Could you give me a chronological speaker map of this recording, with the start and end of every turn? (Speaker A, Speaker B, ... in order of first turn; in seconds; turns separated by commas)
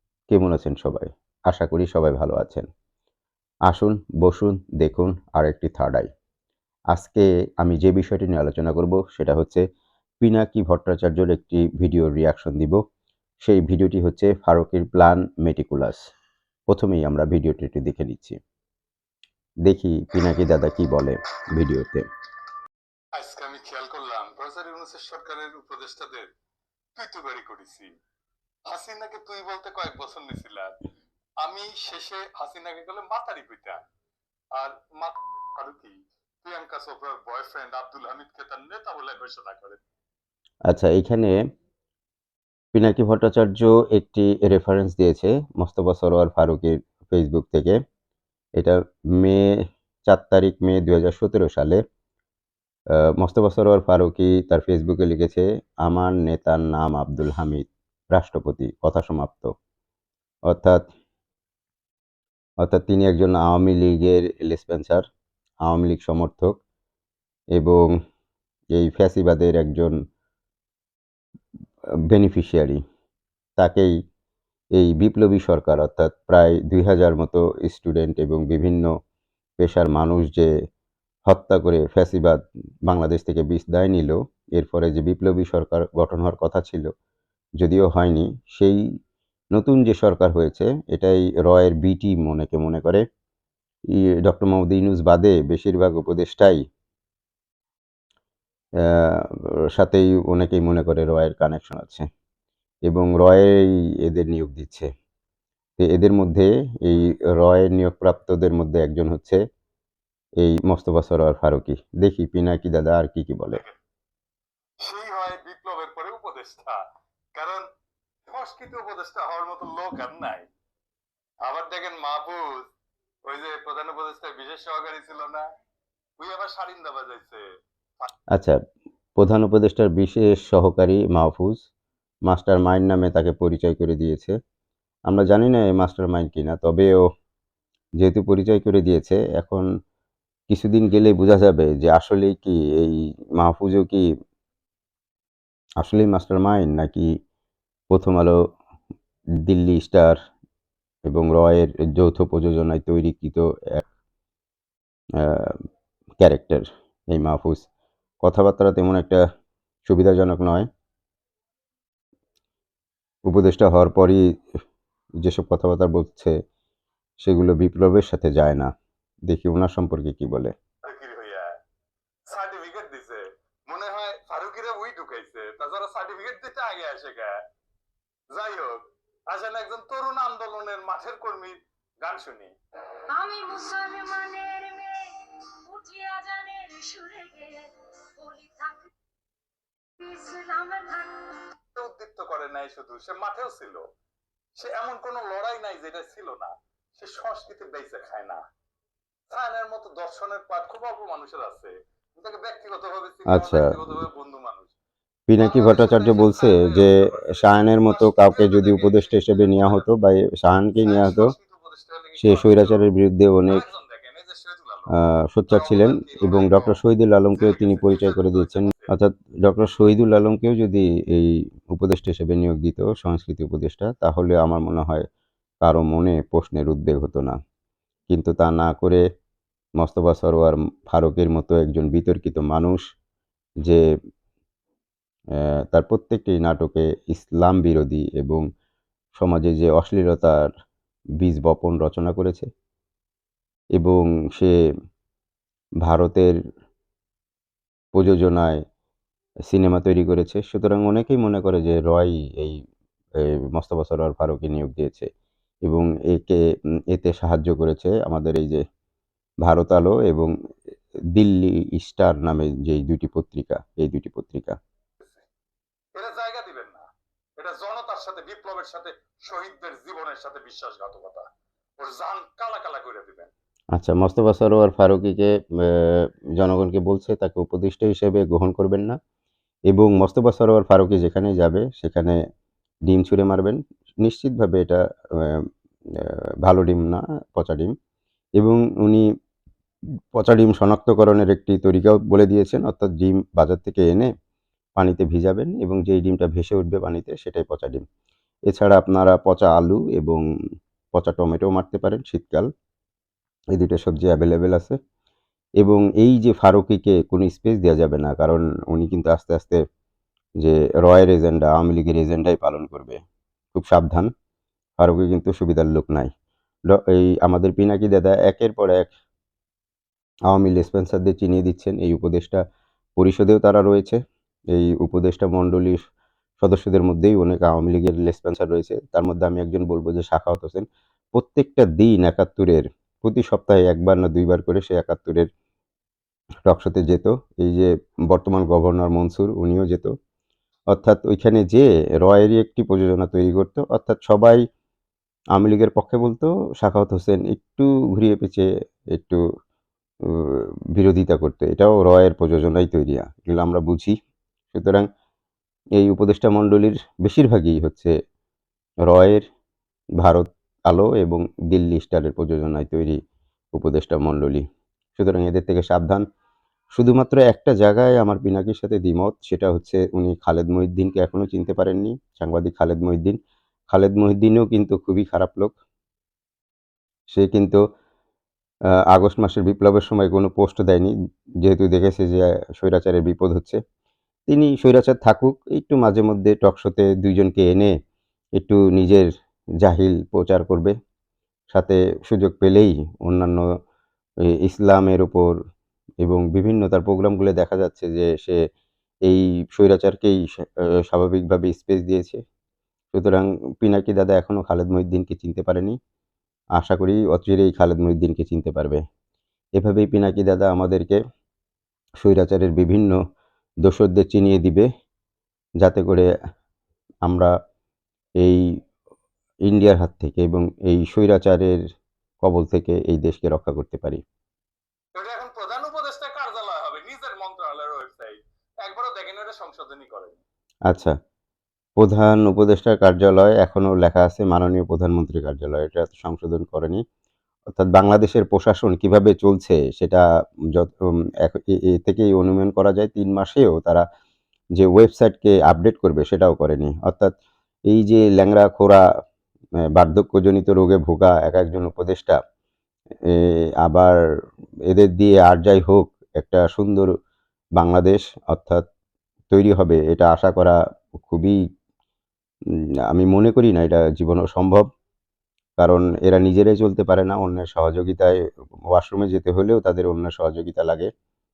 Speaker A: 0.3-2.7, Speaker A: 3.7-6.1, Speaker A: 6.9-9.6, Speaker A: 10.2-12.8, Speaker A: 13.4-16.1, Speaker A: 16.7-18.4, Speaker A: 19.6-22.1, Speaker B: 23.1-26.3, Speaker B: 26.9-27.9, Speaker B: 28.7-30.7, Speaker B: 31.4-33.8, Speaker B: 34.6-39.8, Speaker A: 40.7-41.4, Speaker A: 42.7-47.8, Speaker A: 48.6-49.5, Speaker A: 50.1-51.8, Speaker A: 53.2-59.5, Speaker A: 60.5-60.8, Speaker A: 62.6-65.0, Speaker A: 65.6-66.5, Speaker A: 67.5-67.9, Speaker A: 68.7-69.9, Speaker A: 72.1-72.8, Speaker A: 73.6-73.9, Speaker A: 74.8-78.9, Speaker A: 79.6-80.5, Speaker A: 81.3-86.9, Speaker A: 87.6-88.8, Speaker A: 89.5-93.0, Speaker A: 94.0-96.6, Speaker A: 98.8-102.0, Speaker A: 102.9-104.9, Speaker A: 105.8-109.4, Speaker A: 110.4-113.6, Speaker B: 114.8-116.8, Speaker B: 117.3-117.6, Speaker B: 118.3-120.4, Speaker B: 121.5-122.7, Speaker B: 123.3-125.5, Speaker B: 126.2-127.4, Speaker A: 129.2-131.6, Speaker A: 132.3-134.3, Speaker A: 135.1-137.0, Speaker A: 138.0-139.6, Speaker A: 140.5-144.0, Speaker A: 145.8-147.1, Speaker A: 147.9-148.3, Speaker A: 149.4-150.2, Speaker A: 151.1-153.8, Speaker A: 155.2-155.6, Speaker A: 156.2-157.7, Speaker A: 158.2-159.2, Speaker A: 159.8-160.7, Speaker A: 163.3-164.2, Speaker A: 165.2-166.3, Speaker A: 167.2-168.7, Speaker A: 169.3-170.5, Speaker B: 170.9-171.5, Speaker B: 172.3-177.3, Speaker B: 178.3-182.5, Speaker C: 183.1-188.9, Speaker C: 190.0-191.5, Speaker B: 191.7-193.8, Speaker B: 194.6-198.4, Speaker B: 199.3-204.7, Speaker A: 203.3-203.7, Speaker A: 205.3-211.3, Speaker B: 205.4-209.8, Speaker B: 210.8-212.8, Speaker A: 212.2-213.6, Speaker B: 213.5-214.9, Speaker A: 214.9-225.0, Speaker B: 215.5-216.8, Speaker B: 217.3-218.9, Speaker A: 225.6-227.3, Speaker A: 228.1-229.0, Speaker A: 229.8-232.8, Speaker A: 235.4-238.4, Speaker A: 239.2-240.5, Speaker A: 241.2-242.5, Speaker A: 243.8-244.5, Speaker A: 245.8-246.3, Speaker A: 247.9-248.6, Speaker A: 249.5-252.6, Speaker A: 253.5-255.1, Speaker A: 255.7-258.6, Speaker A: 259.4-260.3, Speaker A: 261.1-264.5, Speaker B: 265.0-265.2, Speaker B: 265.9-266.8, Speaker B: 267.4-271.2, Speaker B: 271.8-273.3, Speaker A: 273.7-278.9, Speaker A: 279.7-282.1, Speaker A: 282.9-285.4, Speaker A: 286.4-287.7, Speaker A: 288.4-289.0, Speaker A: 290.2-294.1, Speaker A: 294.8-297.8, Speaker A: 298.5-300.2, Speaker A: 300.9-302.5, Speaker A: 303.5-304.8, Speaker A: 305.6-309.6, Speaker A: 310.4-313.0, Speaker A: 313.5-314.1, Speaker A: 314.8-316.1, Speaker A: 316.7-318.9, Speaker A: 320.3-322.4, Speaker A: 323.0-324.0, Speaker A: 324.5-325.8, Speaker A: 326.4-330.6, Speaker A: 331.1-335.3, Speaker A: 336.4-339.9, Speaker A: 340.7-344.4, Speaker A: 345.3-349.2, Speaker A: 350.1-353.9, Speaker A: 354.5-354.8, Speaker A: 355.8-357.9, Speaker A: 358.9-359.2, Speaker A: 360.0-363.0, Speaker A: 363.5-364.4, Speaker A: 364.9-366.0, Speaker A: 366.8-373.2, Speaker A: 373.7-375.5, Speaker A: 377.1-377.6, Speaker A: 378.9-380.9, Speaker A: 381.4-383.6, Speaker A: 384.3-387.7, Speaker A: 388.4-389.1, Speaker A: 389.6-390.7, Speaker A: 391.5-393.4, Speaker A: 394.4-395.3, Speaker A: 396.0-398.4, Speaker A: 399.1-400.2, Speaker A: 400.8-402.2, Speaker A: 402.9-405.7, Speaker A: 406.6-408.8, Speaker A: 409.6-411.0, Speaker A: 412.0-413.0, Speaker A: 413.6-414.6, Speaker A: 415.6-416.1, Speaker A: 417.1-417.3, Speaker A: 419.5-421.6, Speaker A: 422.2-424.0, Speaker B: 424.9-430.2, Speaker A: 431.8-436.8, Speaker A: 437.5-443.8, Speaker A: 444.6-447.1, Speaker A: 447.7-448.8, Speaker A: 449.7-452.1, Speaker A: 453.1-453.9, Speaker A: 454.7-456.9, Speaker A: 457.6-458.6, Speaker A: 459.3-461.4, Speaker A: 462.9-464.6, Speaker A: 465.6-468.1, Speaker A: 468.7-470.9